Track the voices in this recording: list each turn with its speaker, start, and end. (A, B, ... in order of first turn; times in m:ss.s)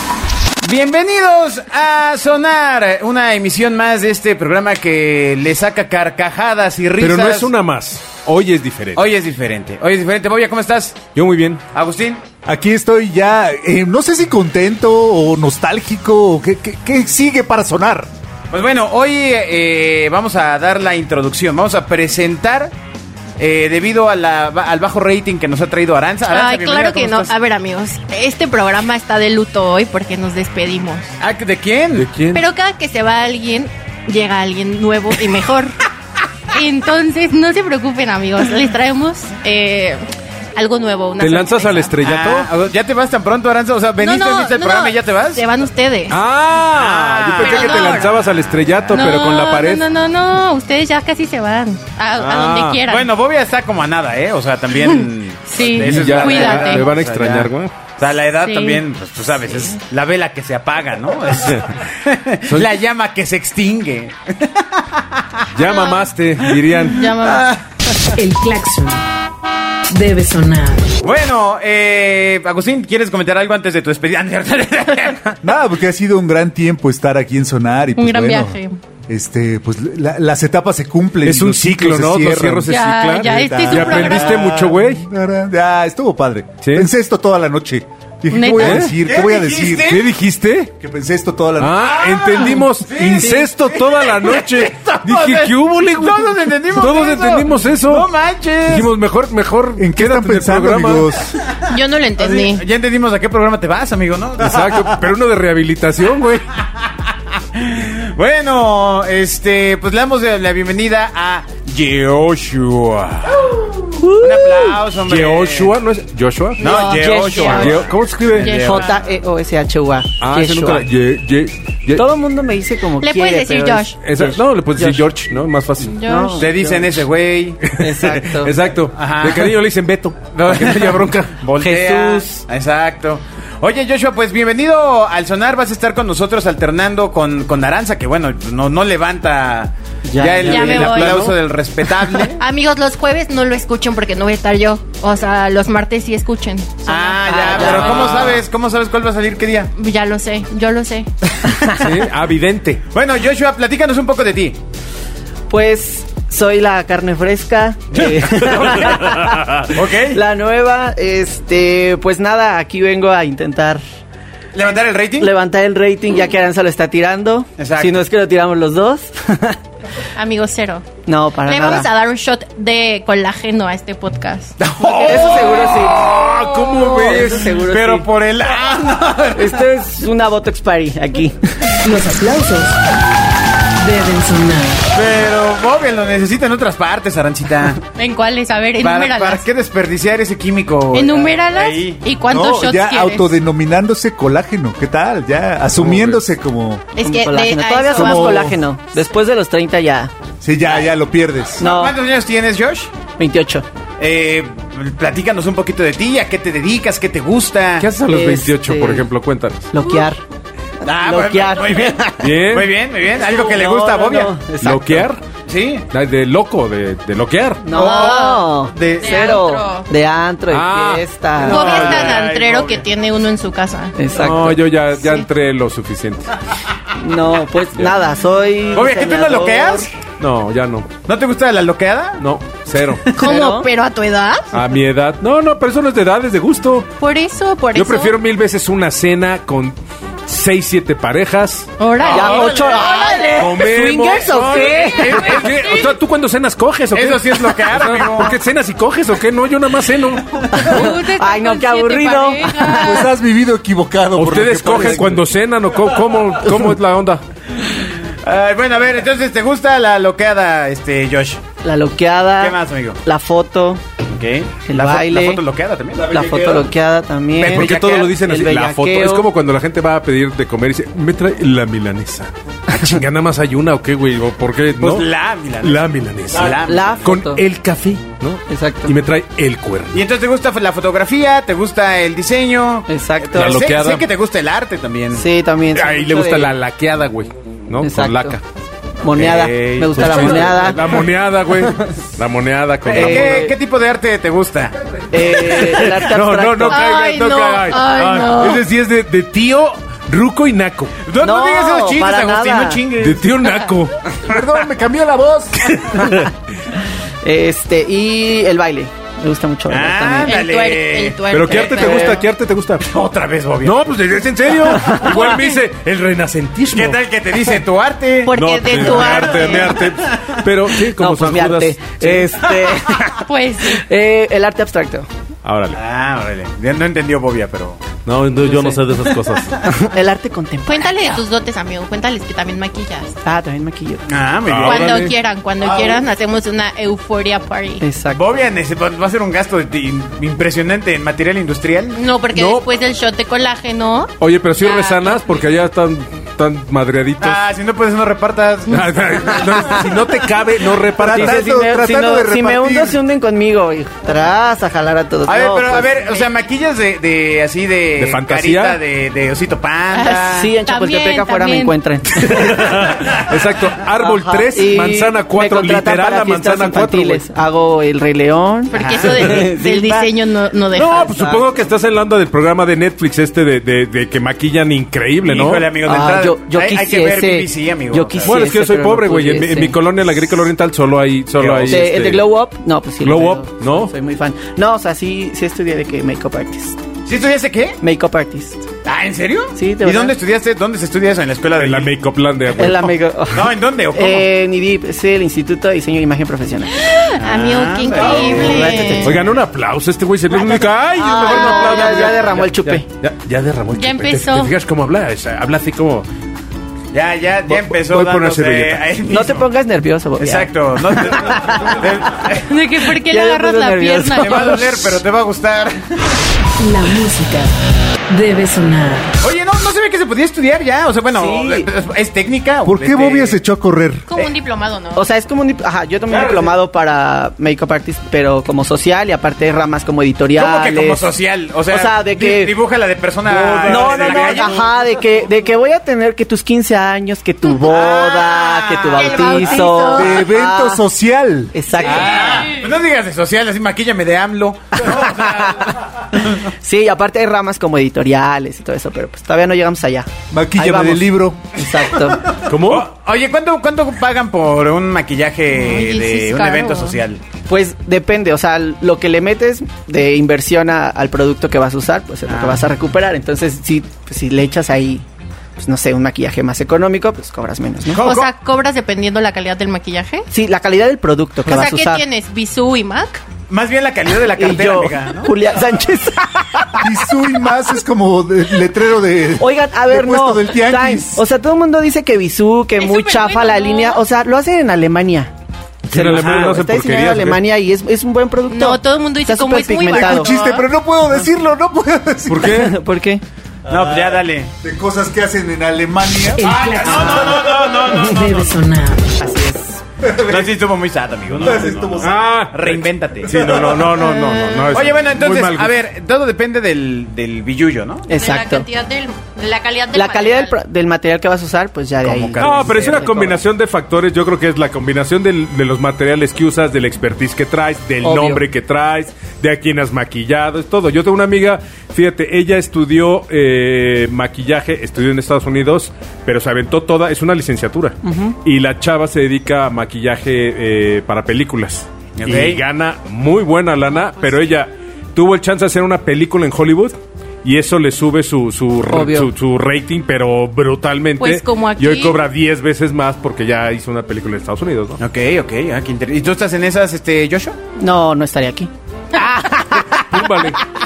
0:00.6-0:07.5 A
0:07.0-0:09.1 B
0:09.0-0:11.1 A
0:11.2-0:11.6 B
0:11.7-0:12.2 A
0:12.4-0:18.1 C
0:18.5-0:22.7 A
0:23.4-0:27.3 A
0:26.3-0:31.1 D
0:31.2-0:32.1 A
0:32.0-0:32.4 B
0:32.3-0:35.8 D
0:36.5-0:40.0 D
0:40.6-0:42.0 D
0:41.2-0:42.5 B
0:42.0-0:45.4 A
0:44.0-0:46.2 D
0:46.1-0:49.8 B
0:46.7-0:48.1 A
0:47.4-0:48.1 D
0:48.9-0:53.1 D
0:52.2-0:52.8 B
0:52.9-1:05.5 A
0:54.8-0:56.9 D
0:55.6-0:57.7 B
0:58.4-0:58.8 D
1:02.5-1:02.7 B
1:05.5-1:07.1 B
1:05.6-1:06.1 D
1:06.6-1:08.2 A
1:06.9-1:07.6 D
1:08.2-1:09.0 E
1:09.9-1:10.9 E
1:11.0-1:15.4 A
1:15.4-1:30.0 C
1:18.0-1:18.8 D
1:21.2-1:25.0 B
1:22.7-1:24.3 D
1:26.6-1:26.9 B
1:28.3-1:28.9 D
1:28.6-1:29.0 B
1:29.0-1:30.1 A
1:29.8-1:30.7 B
1:30.8-1:32.0 C
1:31.6-1:38.1 B
1:32.0-1:38.9 A
1:38.7-1:41.1 B
1:39.8-1:41.4 C
1:41.7-1:42.6 D
1:42.2-1:44.8 A
1:44.4-1:46.5 B
1:47.5-1:55.7 A
1:54.0-1:54.8 F
1:55.1-1:58.5 B
1:56.6-1:57.8 D
1:56.6-1:59.0 A
1:56.8-1:57.6 F
1:58.4-1:59.0 D
1:58.6-2:00.8 F
2:00.2-2:02.0 B
2:02.0-2:05.1 F
2:03.0-2:04.0 D
2:04.0-2:06.0 B
2:05.8-2:06.5 D
2:06.0-2:07.0 F
2:06.4-2:07.7 A
2:07.7-2:08.6 F
2:07.8-2:11.7 B
2:09.0-2:09.5 A
2:10.3-2:22.4 A
2:11.6-2:12.4 F
2:20.1-2:21.0 F
2:20.4-2:21.2 D
2:20.4-2:21.4 B
2:22.4-2:28.3 D
2:26.9-2:29.7 A
2:27.2-2:28.2 F
2:27.9-2:28.4 B
2:29.8-2:31.1 D
2:31.6-2:32.8 B
2:32.9-2:34.6 A
2:35.5-2:43.8 F
2:38.0-2:39.0 A
2:38.6-2:39.6 B
2:39.7-2:40.2 A
2:44.5-2:45.3 A
2:45.2-2:49.6 F
2:47.6-2:48.0 A
2:50.2-2:50.9 D
2:51.1-2:51.9 F
2:51.4-2:54.6 D
2:54.6-2:55.8 A
2:54.8-2:56.0 F
2:55.0-2:57.6 B
2:56.8-2:58.1 F
2:57.2-2:59.6 A
2:59.4-3:01.4 F
3:01.8-3:02.8 E
3:03.8-3:04.8 E
3:04.9-3:07.8 A
3:08.0-3:09.4 D
3:08.8-3:12.0 A
3:10.9-3:13.3 D
3:12.3-3:16.8 C
3:17.0-3:18.5 D
3:17.0-3:20.1 F
3:17.9-3:18.6 C
3:20.4-3:21.6 C
3:20.6-3:20.9 A
3:21.6-3:22.9 A
3:21.6-3:22.0 F
3:23.2-3:23.7 F
3:24.0-3:27.9 A
3:27.8-3:29.7 B
3:28.1-3:29.1 F
3:29.7-3:30.2 F
3:30.8-3:32.2 F
3:30.8-3:34.3 A
3:32.2-3:32.8 B
3:33.1-3:35.1 F
3:34.6-3:35.2 B
3:35.5-3:35.8 A
3:35.9-3:37.6 B
3:37.6-3:41.6 F
3:37.7-3:39.2 A
3:37.7-3:39.9 D
3:40.5-3:42.2 B
3:41.4-3:42.9 A
3:41.4-3:44.0 D
3:44.0-3:44.6 F
3:44.2-3:46.3 B
3:45.0-3:45.3 D
3:47.0-3:49.9 F
3:48.7-3:49.9 A
3:50.2-3:50.9 B
3:51.1-3:52.2 A
3:52.2-3:53.2 B
3:53.2-3:53.7 F
3:53.2-3:54.5 D
3:54.5-3:56.9 B
3:57.0-3:58.2 D
3:57.8-3:59.8 B
4:00.3-4:01.7 B
4:01.8-4:03.6 D
4:02.0-4:03.4 A
4:02.1-4:05.3 F
4:03.4-4:10.5 B
4:04.4-4:05.9 D
4:05.0-4:05.8 A
4:06.9-4:08.4 A
4:10.5-4:13.0 F
4:10.6-4:13.1 D
4:12.8-4:15.2 C
4:14.2-4:17.2 B
4:14.7-4:15.0 F
4:17.6-4:21.4 A
4:21.6-4:23.8 F
4:22.4-4:23.0 A
4:24.1-4:26.1 A
4:24.7-4:25.4 F
4:26.0-4:26.7 C
4:26.0-4:29.3 F
4:27.4-4:28.2 A
4:27.5-4:35.1 B
4:34.8-4:36.8 A
4:35.6-4:40.0 B
4:36.6-4:37.4 F
4:38.5-4:39.0 F
4:39.9-4:45.2 A
4:42.9-4:43.6 F
4:43.4-4:44.1 B
4:45.1-4:46.5 F
4:45.7-4:48.4 B
4:47.8-4:48.4 F
4:49.0-4:51.0 F
4:49.1-4:50.7 A
4:50.0-4:53.5 B
4:52.9-4:54.8 A
4:52.9-4:53.5 F
4:55.1-4:56.9 F
4:55.4-5:01.0 B
4:56.7-4:58.6 D
5:01.0-5:03.4 A
5:01.2-5:02.8 F
5:03.0-5:04.0 B
5:04.3-5:05.6 C
5:05.6-5:06.3 B
5:07.2-5:10.4 F
5:09.7-5:12.2 A
5:10.3-5:12.1 D
5:11.3-5:12.9 B
5:11.8-5:12.2 F
5:12.8-5:13.8 A
5:13.6-5:17.0 B
5:15.1-5:15.6 D
5:16.7-5:20.4 A
5:18.2-5:19.8 D
5:18.3-5:22.3 B
5:21.0-5:25.1 F
5:22.6-5:23.1 A
5:23.2-5:23.8 D
5:25.4-5:25.8 B
5:25.7-5:27.8 A
5:28.0-5:29.6 B
5:28.4-5:29.0 F
5:29.6-5:31.2 F
5:30.7-5:33.1 D
5:33.2-5:34.0 F
5:34.1-5:35.1 A
5:34.5-5:35.1 B
5:34.6-5:37.8 D
5:35.6-5:36.0 A
5:37.8-5:38.2 F
5:38.1-5:42.0 A
5:41.9-5:45.4 D
5:42.3-5:42.7 B
5:44.2-5:47.4 B
5:47.2-5:49.9 A
5:48.7-5:51.5 B
5:51.0-5:53.0 C
5:51.1-5:56.0 F
5:55.3-6:00.5 A
5:58.0-5:58.8 B
5:59.9-6:01.8 D
6:00.3-6:03.0 F
6:02.2-6:07.2 B
6:04.0-6:10.1 F
6:08.7-6:11.2 D
6:08.8-6:09.5 A
6:10.7-6:15.7 B
6:15.2-6:18.4 A
6:15.8-6:19.8 F
6:18.2-6:22.3 B
6:21.4-6:21.8 A
6:21.7-6:26.8 F
6:23.0-6:23.9 B
6:27.1-6:27.8 A
6:27.8-6:28.6 F
6:28.8-6:31.9 A
6:29.6-6:30.2 F
6:31.6-6:33.0 B
6:32.6-6:36.8 F
6:33.3-6:34.3 A
6:36.8-6:39.2 D
6:37.2-6:39.2 A
6:38.0-6:39.3 F
6:39.0-6:46.1 B
6:40.5-6:42.8 F
6:41.2-6:41.9 D
6:43.7-6:44.5 D
6:46.9-6:49.5 A
6:47.5-6:48.8 B
6:49.1-6:51.8 F
6:50.2-6:52.5 A
6:52.5-6:54.6 D
6:53.0-6:55.0 F
6:54.2-6:56.2 A
6:56.6-6:57.6 E
6:58.1-6:59.1 E
6:59.2-7:03.4 A
7:01.1-7:01.7 F
7:02.6-7:04.0 C
7:04.1-7:05.0 D
7:05.0-7:11.1 F
7:06.1-7:06.5 A
7:10.4-7:14.7 A
7:11.7-7:12.6 F
7:13.3-7:14.4 B
7:13.3-7:13.9 C
7:13.6-7:20.8 F
7:17.6-7:19.7 A
7:18.9-7:20.2 D
7:19.9-7:21.6 C
7:21.5-7:22.5 F
7:21.8-7:26.3 A
7:22.2-7:22.6 D
7:25.1-7:25.5 F
7:26.4-7:32.4 F
7:30.3-7:31.4 C
7:32.3-7:37.2 A
7:32.5-7:32.9 B
7:35.5-7:37.0 D
7:37.5-7:45.0 F
7:42.3-7:42.6 A
7:45.6-7:48.0 F
7:47.9-7:48.3 A
7:48.0-7:50.3 D
7:50.3-7:52.0 F
7:51.4-7:53.2 D
7:53.5-7:55.3 A
7:54.4-7:56.9 F
7:56.8-8:01.2 C
7:59.4-8:05.3 F
8:02.8-8:04.0 D
8:05.9-8:07.4 B
8:05.9-8:10.3 F
8:06.1-8:06.5 A
8:08.5-8:10.7 D
8:09.9-8:12.6 C
8:12.3-8:12.8 B
8:12.4-8:13.2 F
8:13.7-8:14.5 A
8:13.7-8:17.1 C
8:16.4-8:19.2 E
8:16.4-8:18.6 A
8:16.9-8:17.3 F
8:19.2-8:19.8 F
8:20.0-8:20.6 C
8:20.1-8:23.5 A
8:21.3-8:22.2 C
8:22.0-8:25.7 B
8:23.3-8:23.9 C
8:24.1-8:24.7 D
8:24.7-8:28.1 A
8:28.1-8:28.7 F
8:28.1-8:30.6 D
8:29.9-8:33.3 F
8:32.0-8:33.4 A
8:32.4-9:05.0 B
8:38.0-8:38.4 F
8:48.0-8:48.4 F
8:52.2-8:52.6 A
8:58.9-8:59.3 F
9:01.2-9:02.2 D
9:05.0-9:07.6 A
9:07.8-9:08.7 F
9:09.2-9:09.8 D
9:09.2-9:10.4 F
9:10.1-9:10.6 B